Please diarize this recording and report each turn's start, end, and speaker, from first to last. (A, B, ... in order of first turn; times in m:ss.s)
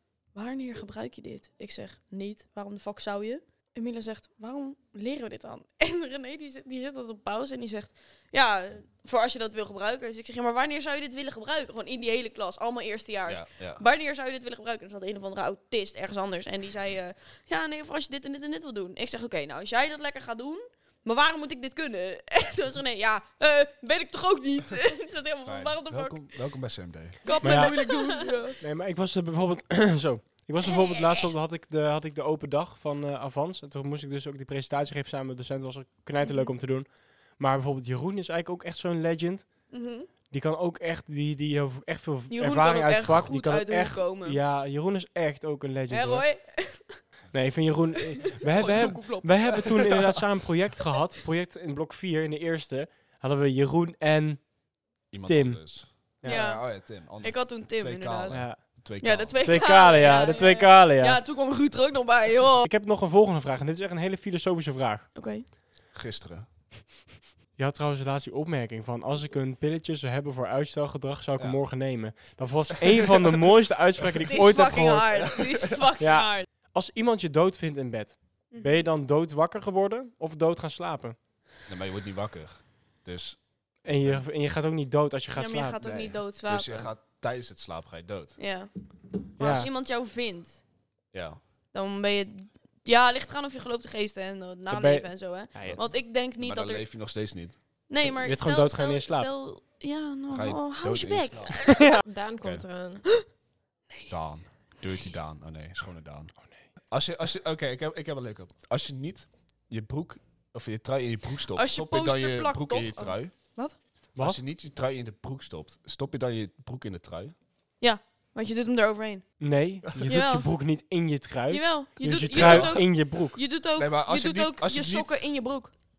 0:00.3-0:26.5 A
0:13.2-0:13.8 B
0:25.4-0:27.2 B
0:27.2-0:28.6 A
0:27.4-0:27.8 C
0:27.6-0:28.0 D
0:28.6-0:39.7 C
0:30.8-0:31.3 D
0:36.2-0:36.5 A
0:39.7-0:40.1 A
0:40.2-0:46.3 C
0:42.3-0:44.4 A
0:45.9-0:47.0 A
0:47.3-0:56.4 C
0:48.2-0:50.2 A
0:55.1-0:59.4 B
0:56.2-1:02.7 A
0:58.3-0:58.7 C
0:59.4-1:01.2 C
0:59.5-1:00.6 D
1:02.6-1:05.1 C
1:05.1-1:05.4 A
1:05.9-1:06.4 B
1:07.6-1:15.3 C
1:14.3-1:16.5 A
1:15.2-1:15.4 B
1:16.0-1:21.2 C
1:18.5-1:18.8 A
1:21.6-1:24.2 B
1:23.8-1:25.8 C
1:25.4-1:26.9 A
1:25.8-1:28.4 B
1:28.4-1:28.7 A
1:29.3-1:30.6 A
1:29.4-1:29.7 C
1:31.1-1:31.4 B
1:31.7-1:36.9 A
1:34.7-1:35.8 C
1:35.6-1:37.6 B
1:37.9-1:42.0 A
1:38.0-1:39.3 C
1:40.3-1:41.6 B
1:41.8-1:43.0 D
1:44.1-1:53.3 B
1:51.5-1:53.8 A
1:54.1-1:57.3 B
1:57.8-1:59.4 A
1:59.4-2:03.4 C
2:00.0-2:00.5 A
2:01.5-2:05.7 A
2:02.3-2:02.9 B
2:03.8-2:05.2 B